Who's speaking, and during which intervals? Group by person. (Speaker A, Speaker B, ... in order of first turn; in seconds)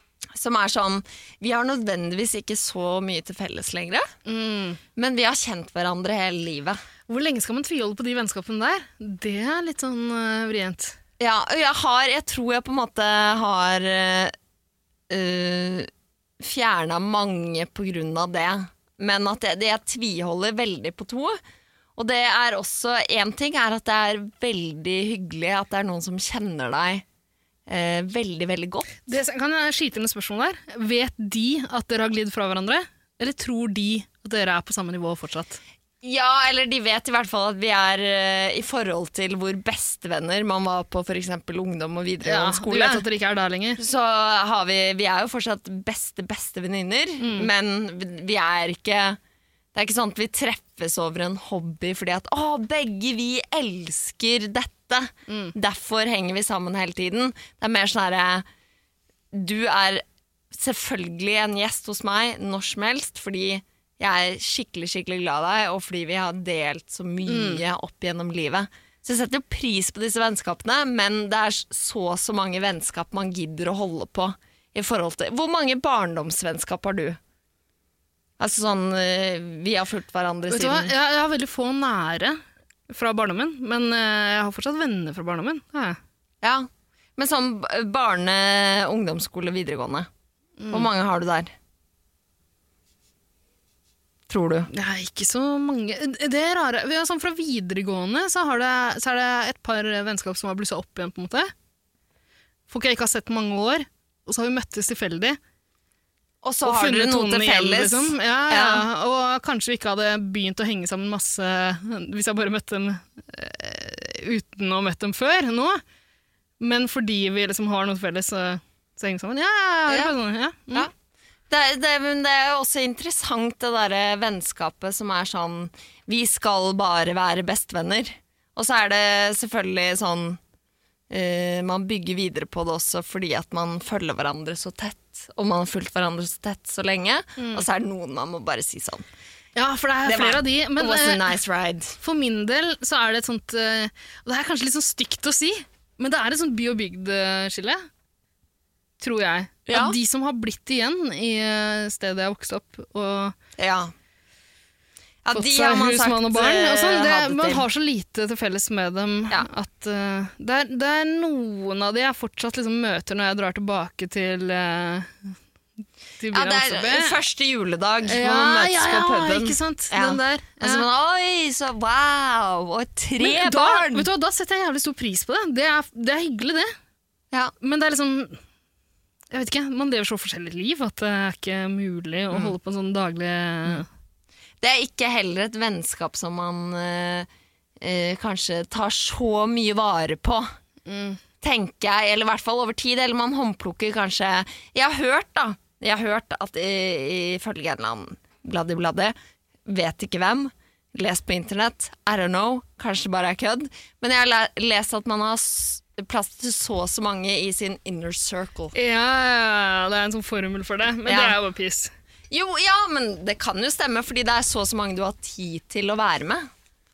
Speaker A: 0.3-4.1, 5.0-6.8, 11.2-14.3, 15.1-21.4, 22.0-27.0, 27.7-28.9, 36.0-43.0, 43.8-49.2, 49.7-58.4, 59.3-77.2, 78.4-80.9, 86.4-90.1, 90.7-91.5, 94.3-94.7, 106.4-108.8, 121.5-130.4, 131.1-139.1, 140.0-142.0, 149.7-150.0, 153.6-153.9, 155.2-157.7, 166.3-174.1, 184.6-187.3, 187.8-190.5, 191.4-199.1, 199.7-208.7, 211.0-211.4, 212.3-216.5
Speaker B: 4.2-4.8, 7.1-11.0, 29.0-35.6, 42.2-43.8, 47.2-47.5, 67.3-67.6, 80.5-86.0, 90.6-90.9, 94.7-101.5, 102.7-105.4, 106.6-115.8, 116.6-120.9, 137.4-137.6, 139.6-141.3, 142.0-147.8, 149.0-153.3, 155.3-165.1, 166.2-167.2, 168.0-170.8, 173.2-176.7, 177.6-178.4, 179.3-183.9, 190.8-191.2, 208.7-211.9